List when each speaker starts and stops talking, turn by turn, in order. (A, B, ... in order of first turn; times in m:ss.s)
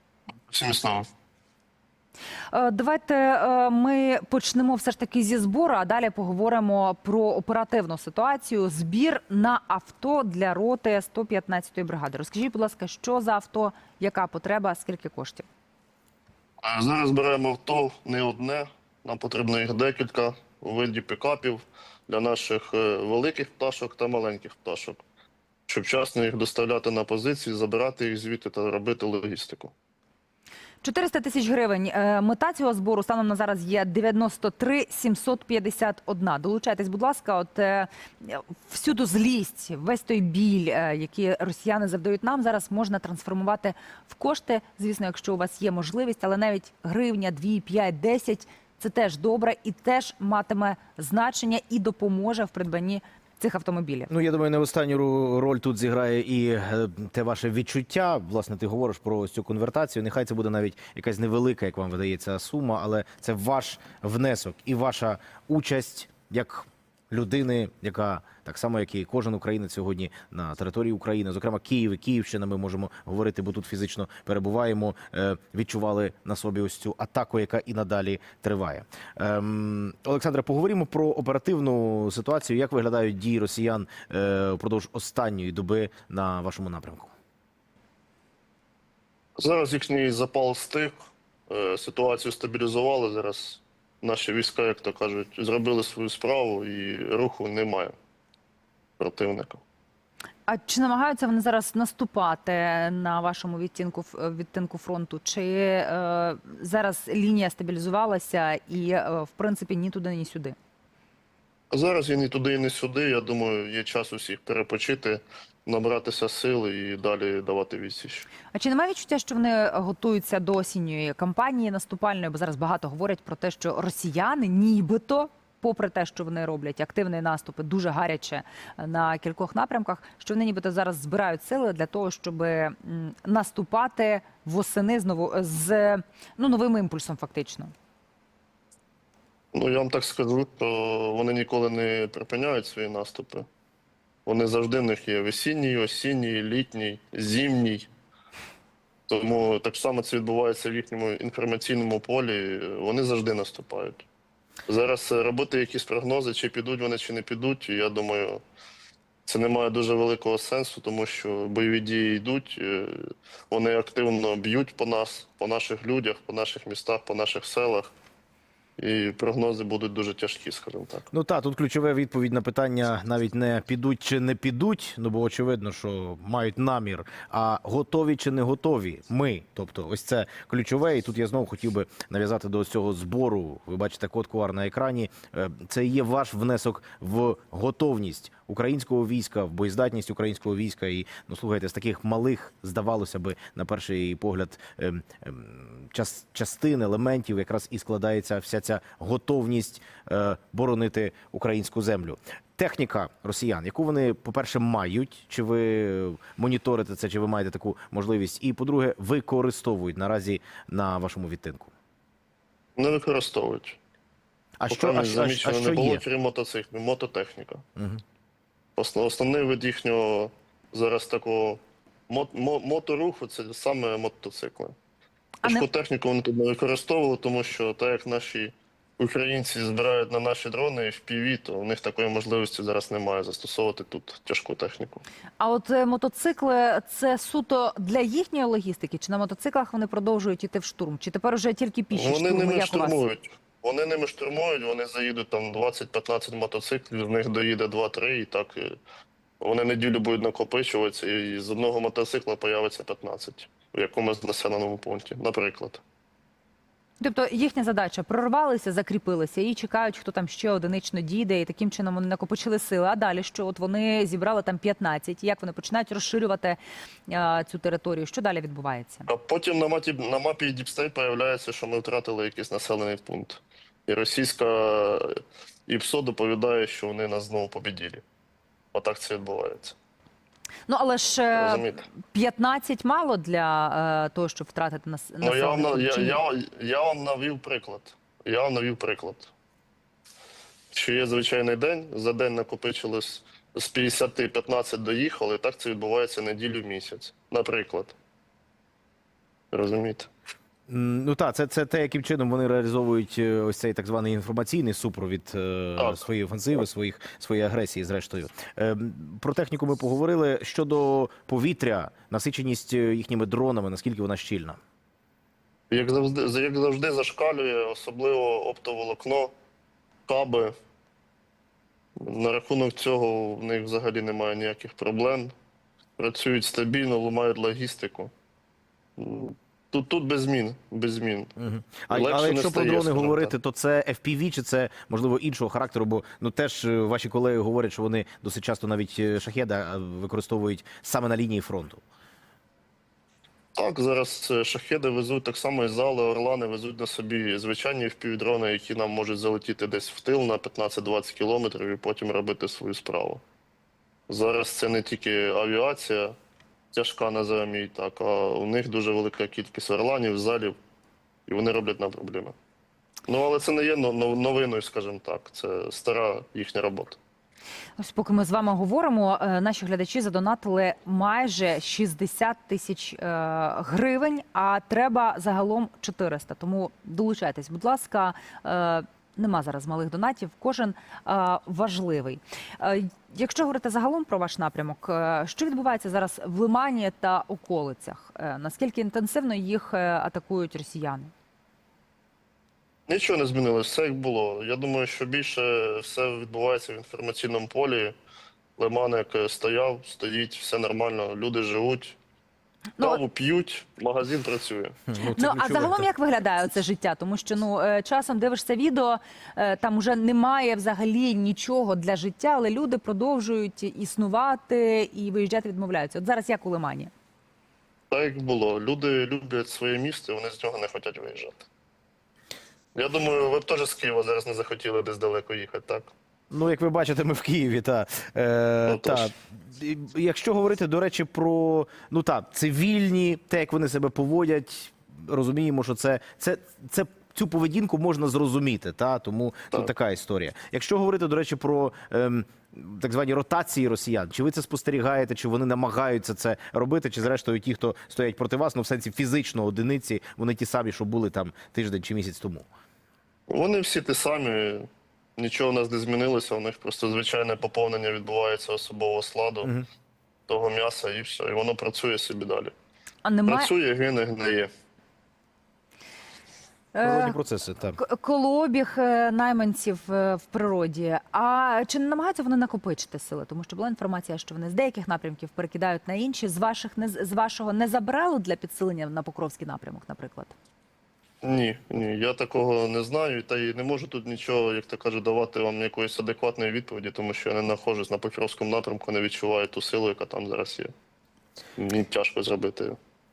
0:00.5-0:01.1 A
0:02.5-0:15.5 B
0:16.6-0:25.0 A
0:25.7-0:29.7 A
0:30.8-0:54.1 B
0:54.1-1:27.1 C
1:29.4-1:38.0 A
1:39.0-1:39.6 A
1:40.5-1:50.6 B
1:51.7-1:58.3 A
1:58.5-2:17.7 B
2:19.5-2:23.5 A
2:24.3-2:27.9 A
2:29.1-2:34.0 A
2:34.7-2:38.4 A
2:39.3-2:47.9 A
2:48.8-2:51.1 A
2:51.1-3:31.7 C
3:32.8-3:33.8 A
3:34.6-3:36.0 C
3:34.7-3:37.6 A
3:37.8-3:38.0 C
3:38.8-3:44.8 A
3:45.4-3:55.0 A
3:55.4-4:03.0 B
4:01.9-4:08.8 A
4:09.4-4:15.8 A
4:17.0-4:29.1 B
4:29.1-4:35.1 A
4:35.7-4:38.0 A
4:38.7-4:39.8 A
4:40.7-4:46.2 B
4:41.3-4:41.9 A
4:45.2-4:49.3 A
4:50.7-4:58.0 A
4:59.5-5:00.1 A
5:00.7-5:14.6 C
5:05.8-5:06.1 A
5:15.7-5:19.3 A
5:20.1-5:20.5 A
5:22.0-5:25.3 A
5:26.0-5:28.1 A
5:29.0-5:31.3 A
5:31.4-5:41.8 C
5:31.9-5:33.3 A
5:43.6-5:53.2 A
5:54.1-5:56.2 A
5:56.7-6:00.6 A
6:01.3-6:02.3 A
6:03.1-6:07.0 A
6:07.8-6:31.1 B
6:32.9-6:38.0 A
6:38.6-6:42.0 A
6:42.8-6:44.8 A
6:44.9-6:45.9 C
6:45.1-6:56.9 B
6:57.9-7:01.4 A
7:02.8-7:05.9 A
7:06.3-7:32.5 C
7:08.7-7:09.1 A
7:33.3-7:39.5 A
7:40.3-7:42.5 A
7:43.0-7:43.5 B
7:43.3-7:44.5 A
7:46.7-7:47.2 B
7:46.8-7:47.8 C
7:47.8-8:00.3 B
8:01.2-8:10.7 A
8:11.6-8:12.8 A